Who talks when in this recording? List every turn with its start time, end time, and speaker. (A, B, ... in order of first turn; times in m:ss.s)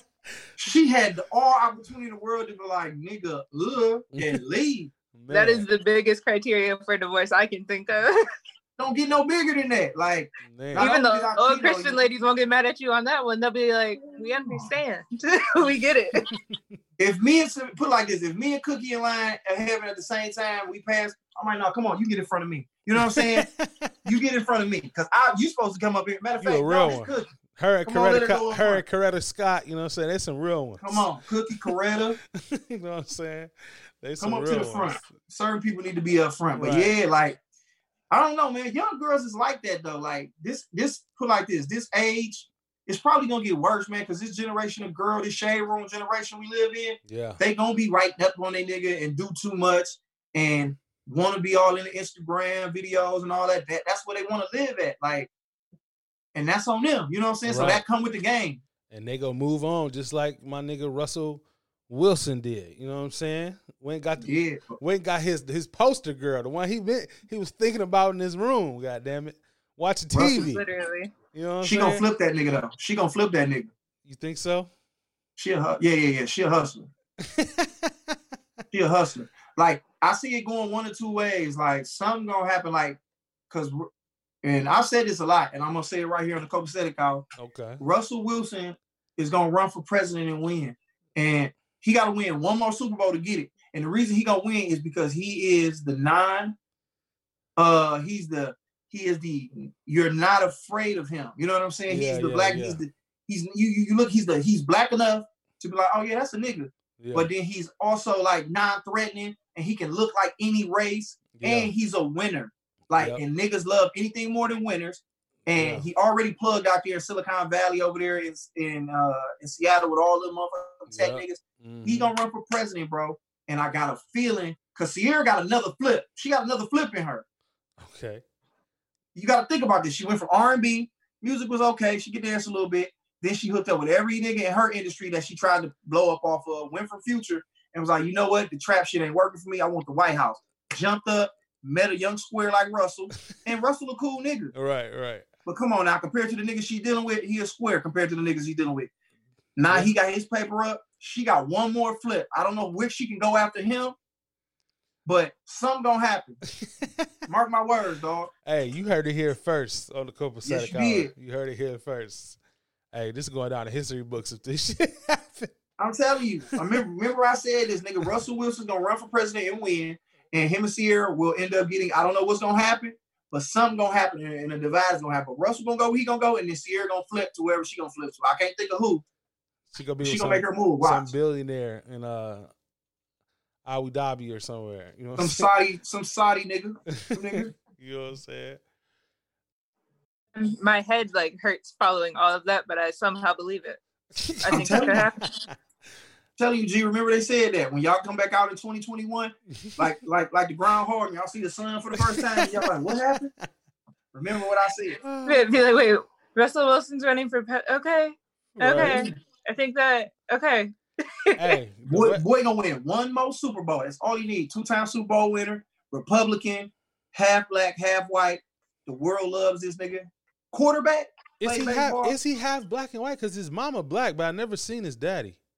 0:00.6-0:04.9 A
0:04.1-0:04.4 B
0:05.1-0:05.6 B
0:05.3-0:08.2 C
0:08.8-0:12.0 A
0:10.4-0:10.9 B
0:10.8-0:16.2 C
0:14.4-0:14.7 A
0:16.5-0:16.8 B
0:17.0-0:23.4 A
0:22.9-0:23.9 B
0:24.0-0:27.3 A
0:26.4-0:31.7 B
0:27.8-0:28.8 A
0:30.8-0:32.2 A
0:32.4-0:35.0 B
0:34.2-0:37.4 A
0:36.6-0:36.9 B
0:38.1-0:55.3 A
0:47.0-0:47.4 B
0:56.3-0:58.6 A
0:57.4-0:57.8 B
0:58.9-1:10.6 B
1:04.2-1:04.8 A
1:10.1-1:10.5 A
1:10.4-1:11.1 C
1:11.3-1:12.0 B
1:11.6-1:13.7 A
1:14.0-1:14.7 B
1:15.4-1:16.9 A
1:17.3-1:17.9 B
1:18.7-1:23.0 A
1:23.5-1:23.9 A
1:24.4-1:27.3 A
1:27.4-1:27.8 B
1:27.8-1:36.5 A
1:37.6-2:07.2 A
1:41.9-1:42.8 B
1:47.0-1:47.3 B
1:51.3-1:51.7 B
1:52.9-1:53.2 B
1:55.5-1:55.9 B
2:00.9-2:02.1 B
2:07.8-2:08.2 B
2:09.1-2:24.5 A
2:24.5-2:25.2 B
2:25.4-2:28.9 A
2:29.6-2:33.9 A
2:35.0-2:36.4 A
2:36.6-2:37.1 B
2:37.3-2:38.3 A
2:38.4-2:42.4 B
2:40.4-2:41.1 A
2:42.9-2:45.5 B
2:45.8-2:59.0 A
2:59.7-3:02.5 B
3:00.0-3:01.1 A
3:03.6-3:05.5 B
3:05.2-3:07.5 A
3:07.0-3:08.6 B
3:10.4-3:13.8 C
3:14.2-3:15.5 B
3:14.4-3:15.2 C
3:14.5-3:15.0 A
3:16.4-3:23.3 A
3:19.6-3:19.8 B
3:21.9-3:22.7 B
3:24.1-3:25.0 A
3:25.0-3:25.4 B
3:25.2-3:31.3 C
3:28.6-3:29.1 B
3:28.8-3:29.1 A
3:31.4-3:32.2 B
3:31.9-3:42.2 A
3:41.4-3:45.4 B